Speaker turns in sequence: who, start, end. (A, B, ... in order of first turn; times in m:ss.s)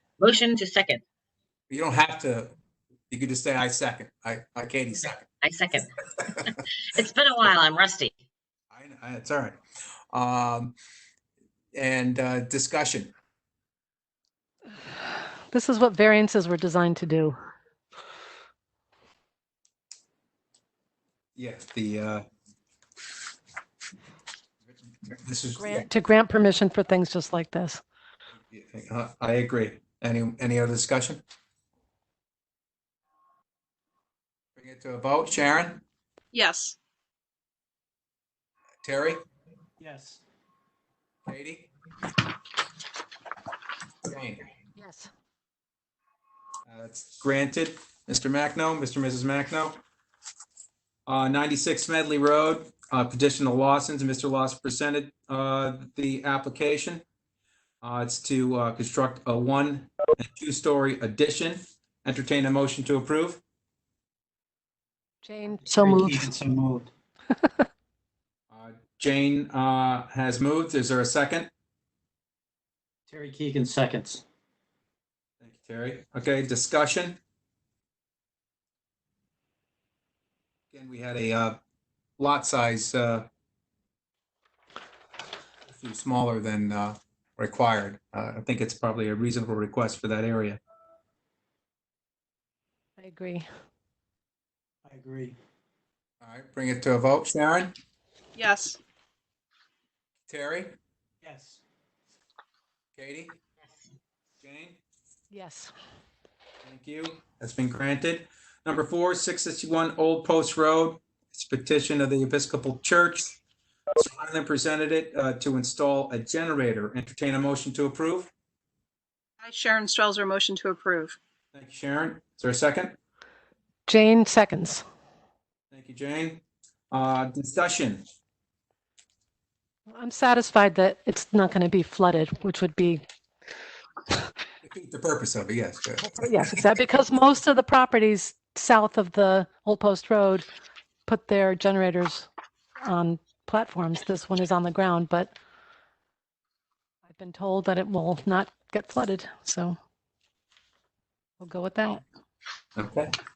0:00.2-0:01.0 A
0:01.7-0:02.5 B
0:03.1-0:05.3 B
0:05.4-0:05.9 A
0:06.9-0:08.1 A
0:08.7-0:09.6 B
0:10.1-0:10.8 B
0:11.7-0:13.1 B
0:15.0-0:17.4 C
0:21.4-0:22.2 B
0:25.2-0:25.9 B
0:25.6-0:27.8 C
0:28.5-0:31.2 B
0:34.6-0:35.8 B
0:36.3-0:36.8 D
0:38.8-0:39.2 B
0:39.8-0:40.2 E
0:41.2-0:41.7 B
0:44.0-0:44.4 B
0:44.8-0:45.1 C
0:46.7-0:49.8 B
0:51.1-0:57.0 B
0:57.8-1:03.4 B
1:05.2-1:06.3 C
1:05.7-1:06.9 E
1:08.5-1:11.5 B
1:13.1-1:14.2 E
1:15.4-1:17.2 B
1:20.7-1:21.6 B
1:22.2-1:23.3 B
1:25.6-1:30.6 B
1:33.0-1:33.4 C
1:34.8-1:35.4 E
1:36.2-1:37.7 B
1:38.3-1:38.8 D
1:40.3-1:40.7 B
1:41.2-1:41.6 E
1:42.9-1:43.4 B
1:44.4-1:44.8 B
1:45.3-1:45.7 C
1:46.6-1:53.4 B
1:54.0-1:58.3 B
1:59.4-2:01.2 D
2:01.5-2:03.0 B
2:03.9-2:04.8 C
2:05.7-2:08.0 B
2:09.9-2:13.0 C
2:14.6-2:16.3 B
2:16.0-2:20.4 C
2:21.0-2:22.3 C
2:22.8-2:25.3 C
2:27.1-2:29.8 C
2:31.4-2:32.0 C
2:32.8-2:33.1 B